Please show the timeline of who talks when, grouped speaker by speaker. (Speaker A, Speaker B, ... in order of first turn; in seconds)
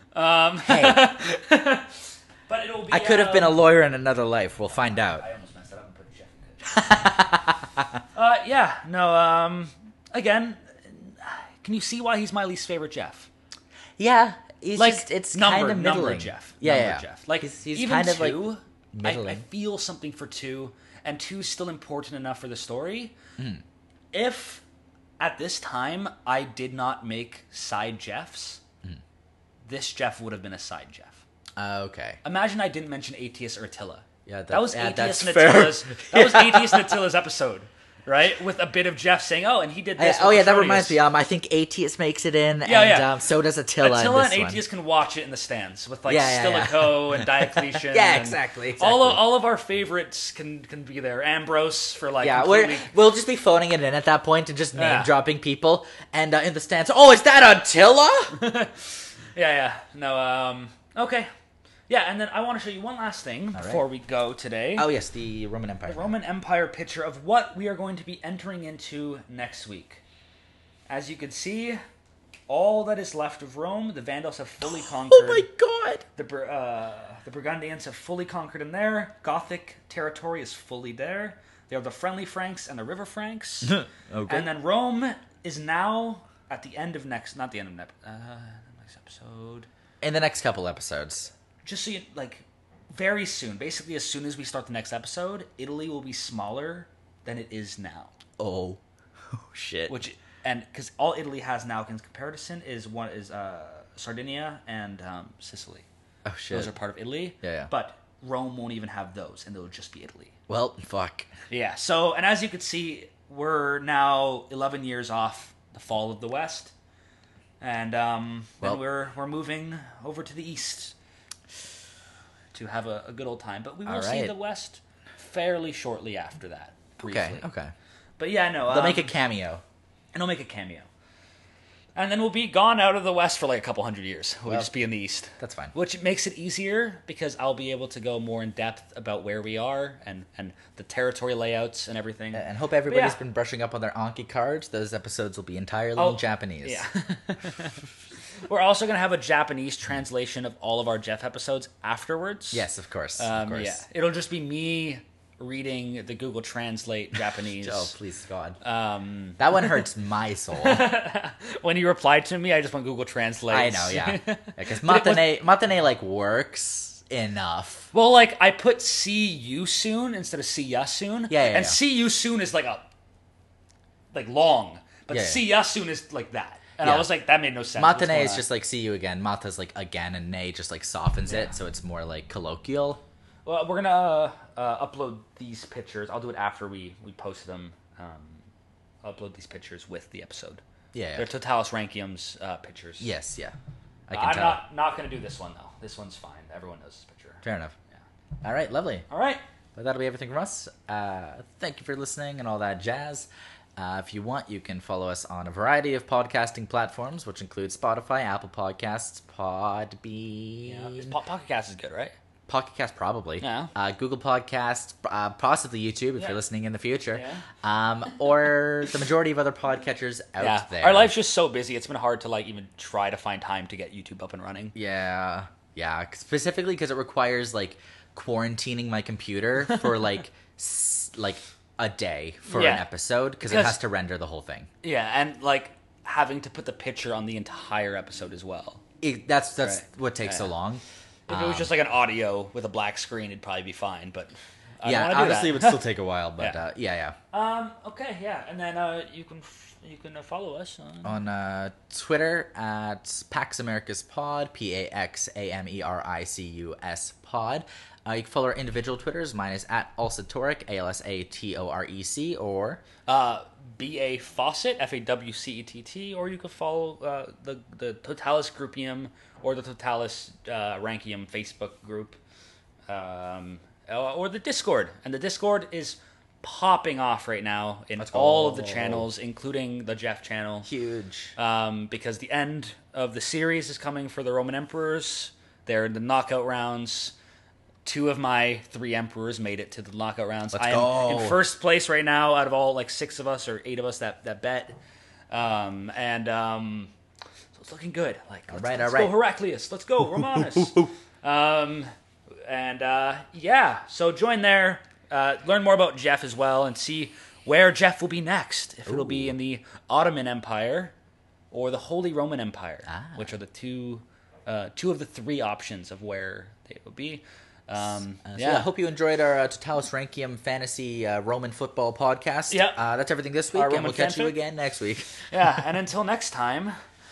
Speaker A: 0.1-3.6, 4.9-7.1, 8.1-13.3, 14.7-23.1, 24.1-24.6, 25.2-28.6, 29.6-31.2, 32.2-41.0, 42.6-43.1, 43.8-52.9, 54.7-55.1, 58.3-61.3, 61.9-64.9, 65.9-70.0, 70.9-71.8, 72.5-75.5, 76.2-89.7, 91.6-98.1, 99.9-105.8, 106.5-110.3, 111.5-116.7, 117.6-120.9, 122.5-127.4, 128.2-129.2, 130.1-130.9, 131.9-143.2, 145.9-147.8, 148.4-152.7, 153.2-157.9, 158.6-159.8, 160.5-165.3, 167.9-172.9, 174.1-178.5, 181.2-181.5, 183.4-188.4, 189.0-190.6, 191.2-193.1, 194.1-198.0, 199.1-199.4, 210.6-212.1, 213.4-213.7, 217.1-217.4, 220.4-224.8, 232.5-232.8, 233.4-233.8, 234.8-238.8, 239.6-240.5, 241.3-245.8, 247.3-251.2, 263.1-272.2, 272.9-280.7, 281.4-287.1, 287.8-294.8, 295.3-296.9, 297.6-310.9, 311.5-318.7, 322.5-322.8, 323.5-324.4, 325.3-326.8
Speaker B: 0.7-1.3, 2.9-5.2, 6.6-8.0, 14.0-19.4, 23.4-23.6, 31.6-32.2, 34.2-37.0, 40.0-44.6, 46.1-49.2, 52.2-58.4, 63.5-63.8, 64.8-66.1, 74.7-76.0, 83.6-84.5, 90.0-91.3, 98.4-100.0, 106.2-106.7, 107.4-107.7, 110.5-111.3, 123.8-124.3, 127.0-127.7, 128.7-129.6, 135.4-135.7, 142.3-146.8, 152.5-153.8, 157.6-158.6, 159.4-160.9, 163.5-167.9, 171.3-171.8, 175.1-175.4, 176.8-177.1, 177.8-183.0, 190.9-191.3, 193.0-193.5, 194.1-194.6, 197.4-197.7, 198.4-199.1, 199.8-211.1, 212.5-221.1, 224.7-234.7, 239.0-241.7, 244.8-247.2, 251.0-262.8, 278.0-279.1, 280.6-281.3, 290.5-291.4, 298.5-299.2, 300.3-300.9, 308.9-309.3, 312.9-313.3, 318.3-325.1